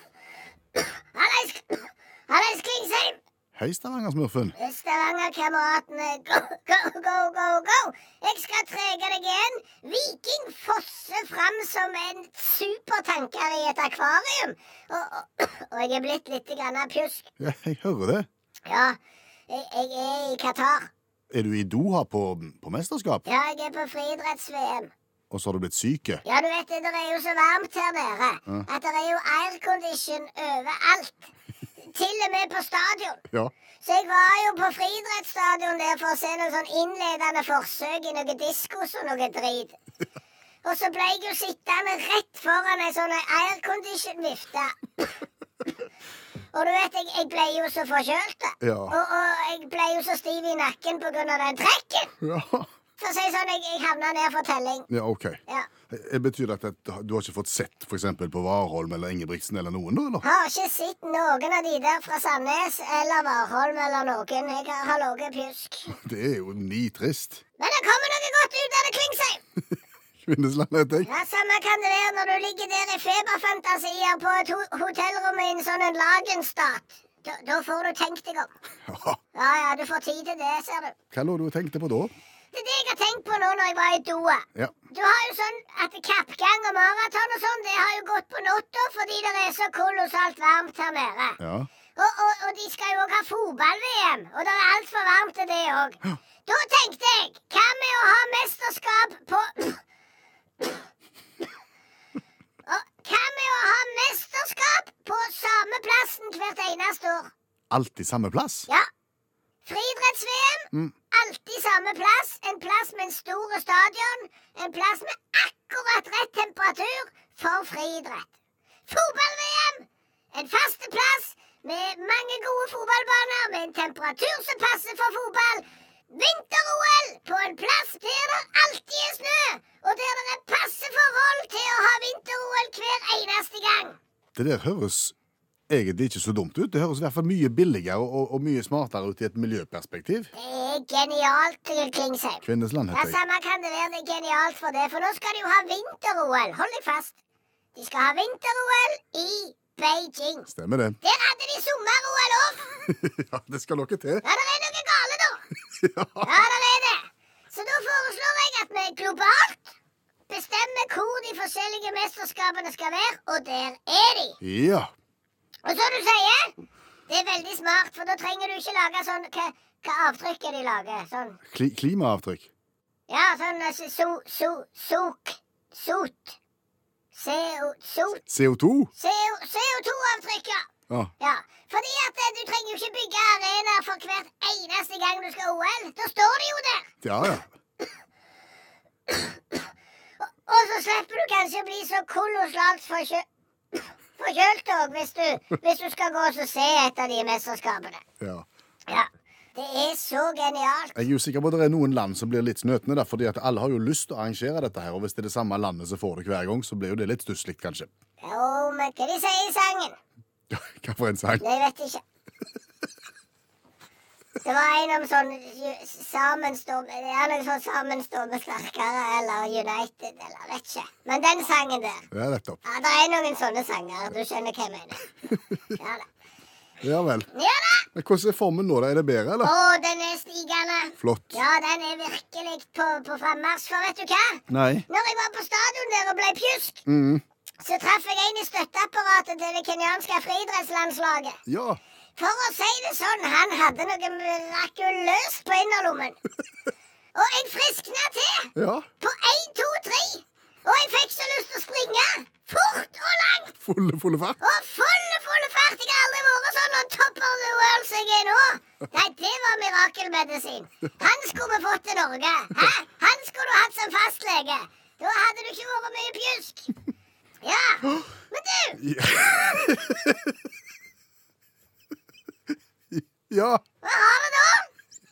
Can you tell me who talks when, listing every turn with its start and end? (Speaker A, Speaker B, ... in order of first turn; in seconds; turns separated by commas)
Speaker A: 1.1-3.2, Speaker B: 3.5-4.5, Speaker A: 4.5-17.3, Speaker B: 17.4-18.3, Speaker A: 18.6-19.0, Speaker A: 19.5-20.9, Speaker B: 21.3-23.2, Speaker A: 23.2-24.9, Speaker B: 25.3-26.2, Speaker A: 26.2-33.2, Speaker A: 33.8-39.8, Speaker A: 40.6-44.8, Speaker A: 46.5-52.1, Speaker B: 48.6-49.0, Speaker B: 52.2-52.7, Speaker A: 53.0-54.9, Speaker B: 54.9-60.2, Speaker A: 60.2-65.9, Speaker B: 65.9-67.4, Speaker A: 67.6-69.4, Speaker B: 70.2-71.1, Speaker A: 71.0-78.5, Speaker B: 78.9-79.2, Speaker A: 79.3-80.9, Speaker B: 81.1-82.1, Speaker A: 82.5-91.4, Speaker B: 91.4-91.7, Speaker A: 92.0-99.8, Speaker A: 102.7-107.3, Speaker B: 107.7-108.7, Speaker A: 109.6-118.3, Speaker A: 118.9-134.0, Speaker B: 134.3-135.1, Speaker B: 135.7-140.3, Speaker A: 140.3-147.2, Speaker B: 142.4-143.2, Speaker A: 147.7-150.5, Speaker B: 150.5-151.0, Speaker A: 151.0-152.7, Speaker B: 152.8-154.2, Speaker A: 154.2-155.4, Speaker B: 155.8-156.3, Speaker A: 156.2-159.7, Speaker A: 160.3-164.4, Speaker B: 164.4-164.9, Speaker A: 165.6-166.5, Speaker A: 167.1-171.4, Speaker B: 171.5-172.5, Speaker A: 173.1-176.3, Speaker A: 177.1-178.2, Speaker B: 178.3-178.9, Speaker A: 178.9-180.7, Speaker A: 181.2-186.9, Speaker B: 187.0-187.5, Speaker A: 189.1-189.4, Speaker A: 190.2-193.2, Speaker A: 194.2-198.0, Speaker B: 198.2-198.4, Speaker A: 198.9-201.0, Speaker B: 200.9-207.9, Speaker A: 208.2-210.0, Speaker B: 210.5-211.4, Speaker A: 211.4-212.0, Speaker A: 214.4-222.1, Speaker B: 222.1-222.6, Speaker A: 222.6-225.0, Speaker A: 225.7-226.1, Speaker B: 226.8-227.3, Speaker A: 227.3-227.9, Speaker B: 227.9-229.5, Speaker A: 229.4-236.8, Speaker B: 231.0-231.4, Speaker B: 234.5-234.8, Speaker B: 236.9-237.2, Speaker A: 237.6-241.4, Speaker B: 241.5-241.8, Speaker A: 242.2-246.2, Speaker A: 247.1-253.6, Speaker B: 248.5-248.8, Speaker B: 253.6-254.4, Speaker A: 254.4-266.7, Speaker A: 267.4-268.8, Speaker B: 268.8-270.3, Speaker B: 272.9-273.6, Speaker A: 273.8-274.7